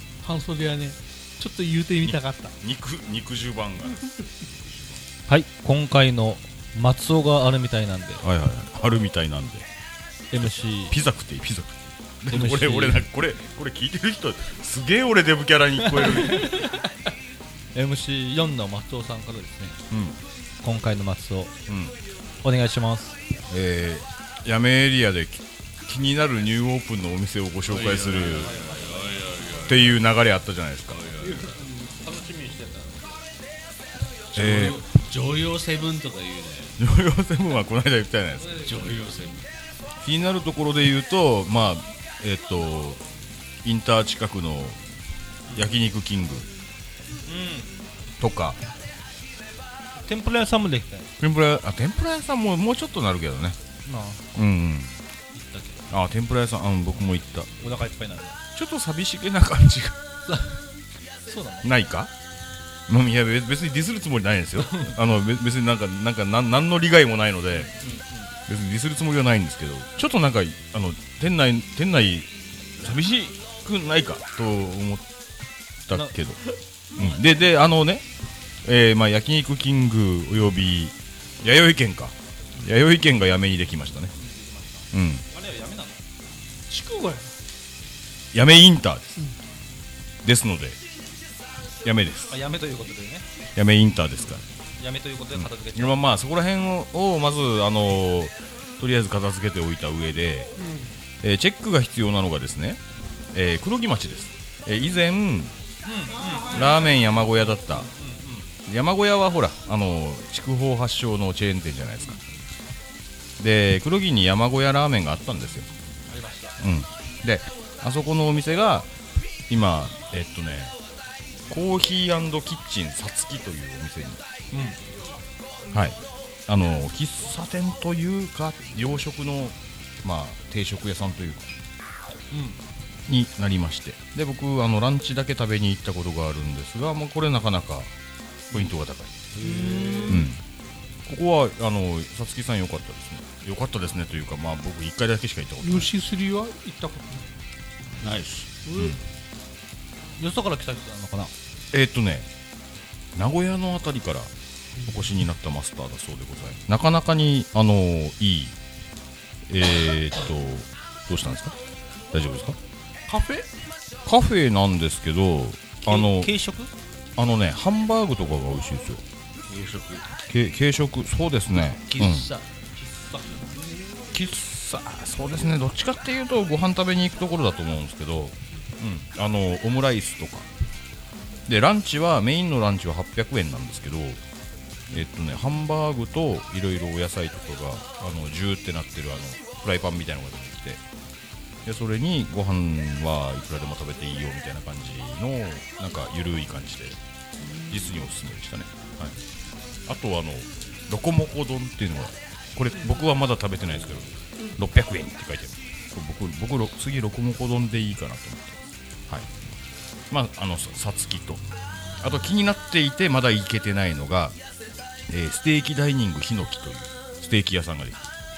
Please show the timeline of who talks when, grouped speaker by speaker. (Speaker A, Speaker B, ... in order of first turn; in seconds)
Speaker A: 0.2-2.5, 86.7-87.3, 100.6-100.9, 139.7-140.1, 145.6-147.3, 148.6-149.0, 163.1-163.5
Speaker B: 2.0-4.1, 8.2-9.7, 10.4-16.7, 19.9-20.2, 21.7-21.9, 23.5-28.5, 29.6-31.0, 34.3-34.8, 36.8-38.7, 40.0-43.0, 43.6-44.8, 45.5-46.5, 48.2-48.6, 51.2-53.6, 54.3-55.0, 55.9-57.5, 58.5-60.0, 61.6-62.1, 62.9-67.7, 68.5-75.0, 75.9-76.4, 77.0-78.0, 78.6-84.1, 84.9-85.2, 88.3-89.2, 90.2-90.8, 91.8-92.3, 93.5-94.4, 95.3-100.5, 101.2-102.8, 103.3-105.5, 106.4-107.9, 108.6-112.2, 113.4-115.7, 116.6-118.9, 119.5-120.7, 121.5-124.2, 125.7-131.5, 133.1-137.9, 138.5-139.2, 140.1-140.4, 141.1-146.0, 151.7-152.3, 153.1-158.5, 159.5-161.6, 162.1-162.6, 164.0-166.3, 167.2-169.0, 170.2-172.3, 174.1-180.5, 181.5-184.2, 184.9-190.8, 191.6-197.0, 197.7-199.2, 199.8-209.3, 210.1-211.4, 212.0-214.4, 215.1-218.1
Speaker C: 5.3-8.2, 10.3-11.0, 12.3-13.1, 15.9-16.8, 17.7-19.8, 20.6-21.5, 22.4-23.1, 27.8-29.6, 31.2-33.3, 47.2-47.7, 50.0-51.1, 53.9-54.3, 55.3-55.8, 57.6-58.4, 60.3-60.6, 61.2-61.7, 64.6-65.0, 67.6-68.3, 84.1-86.0, 92.3-93.2, 94.8-96.0, 105.8-108.5, 116.1-116.6, 124.5-124.8, 132.3-132.6, 139.4-140.3, 150.2-151.3, 165.8-166.7, 172.8-173.6
Speaker D: 27.6-30.0, 30.9-31.7, 34.3-36.8, 38.5-39.5, 139.3-140.2, 148.0-148.5, 169.5-170.1, 171.9-172.5